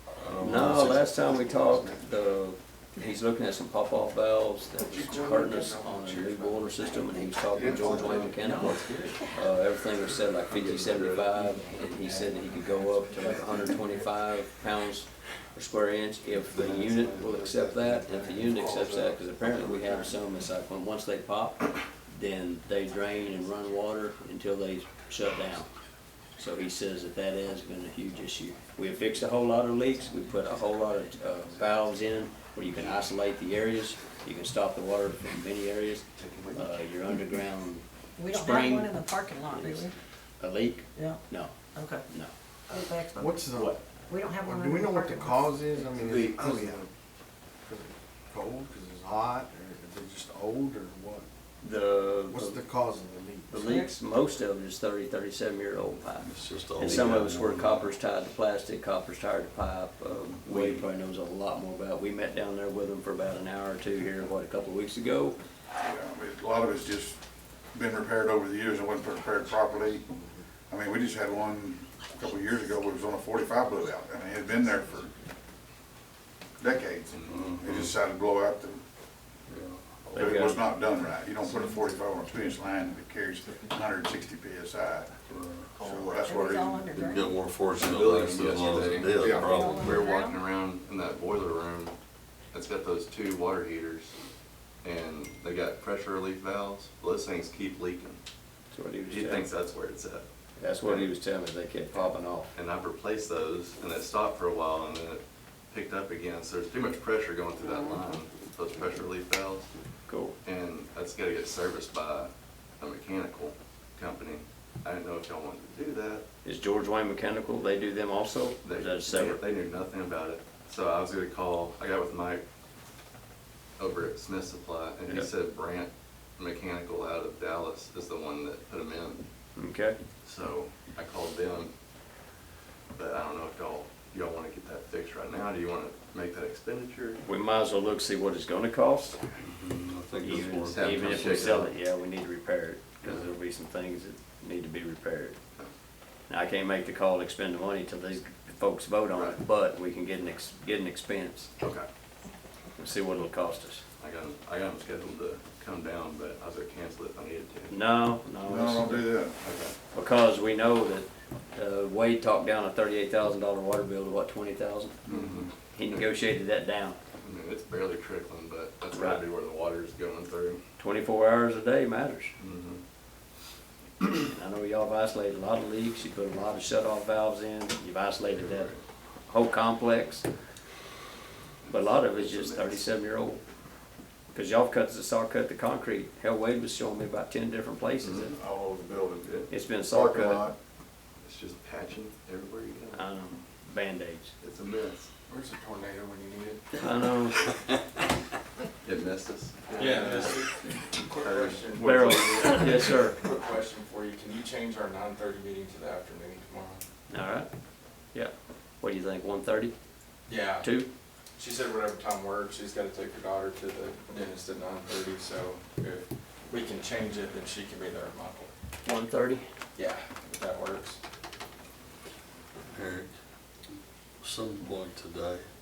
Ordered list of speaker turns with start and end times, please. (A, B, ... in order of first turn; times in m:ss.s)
0:00.2-0:01.1 A
0:00.4-0:25.7 B
0:01.2-0:01.9 C
0:04.8-0:06.6 C
0:06.9-0:07.3 D
0:07.5-0:08.5 C
0:08.4-0:09.0 E
0:09.1-0:09.4 D
0:10.5-0:11.1 A
0:13.2-0:13.6 C
0:16.5-0:17.9 A
0:26.4-0:38.9 B
0:36.2-0:36.7 F
0:38.2-0:39.9 D
0:39.5-0:41.5 B
0:41.0-0:41.2 D
0:41.7-0:42.0 D
0:42.7-0:46.0 D
0:43.1-0:43.8 C
0:44.4-0:46.9 C
0:46.0-0:46.8 F
0:47.6-0:51.3 C
0:51.6-0:52.6 B
0:52.3-0:53.7 C
0:53.5-1:05.4 B
0:53.6-0:53.9 D
0:56.2-0:57.9 A
1:05.8-1:07.2 G
1:07.7-1:10.1 G
1:09.6-1:10.0 C
1:10.7-1:15.1 G
1:16.6-1:18.8 G
1:17.1-1:17.4 F
1:17.3-1:17.9 A
1:19.5-1:19.8 A
1:20.1-1:25.2 G
1:20.1-1:20.6 B
1:25.3-1:25.7 A
1:25.8-1:26.9 G
1:25.8-1:26.2 F
1:26.2-1:27.4 D
1:26.9-1:30.0 A
1:27.8-1:31.9 F
1:28.9-1:30.4 D
1:32.5-1:34.1 F
1:34.8-1:38.2 F
1:38.7-1:39.5 B
1:39.1-1:40.2 F
1:40.6-1:42.5 B
1:40.8-1:41.1 F
1:42.5-1:49.7 F
1:50.1-1:50.3 B
1:50.4-1:56.2 F
1:56.4-1:59.4 B
1:58.6-2:02.4 F
2:03.8-2:09.2 F
2:09.6-2:10.0 B
2:10.2-2:11.7 F
2:13.0-2:17.2 F
2:17.2-2:19.2 B
2:19.4-2:21.6 A
2:20.2-2:25.4 B
2:20.3-2:21.7 F
2:23.0-2:23.3 F
2:26.3-2:31.5 B
2:29.1-2:29.4 F
2:31.6-2:31.9 F
2:32.8-2:33.8 B
2:34.0-2:37.7 F
2:37.7-2:39.1 B
2:38.4-2:39.4 G
2:39.4-2:39.7 F
2:39.9-2:45.0 B
2:45.1-2:45.5 F
2:45.6-2:47.0 B
2:47.2-2:50.6 F
2:48.9-2:49.2 B
2:50.8-2:52.3 B
2:52.4-2:52.8 F
2:54.2-2:58.7 B
2:58.3-2:58.8 F
2:59.3-3:00.2 B
3:01.6-3:02.8 F
3:01.7-3:03.4 B
3:04.3-3:08.4 B
3:08.0-3:08.3 F
3:08.3-3:10.6 G
3:09.2-3:09.5 F
3:09.5-3:10.5 B
3:11.2-3:13.0 F
3:12.9-3:14.3 B
3:14.4-3:15.1 F
3:15.3-3:16.6 E
3:16.8-3:17.5 B
3:18.8-3:20.4 F
3:19.7-3:26.8 E
3:21.0-3:22.9 F
3:21.8-3:23.2 B
3:27.1-3:27.5 B
3:28.1-3:29.7 B
3:30.3-3:30.6 E
3:30.6-3:30.9 B
3:31.4-3:38.5 E
3:38.8-3:39.4 B
3:39.8-3:41.0 E
3:42.7-3:43.1 A
3:44.2-3:45.4 A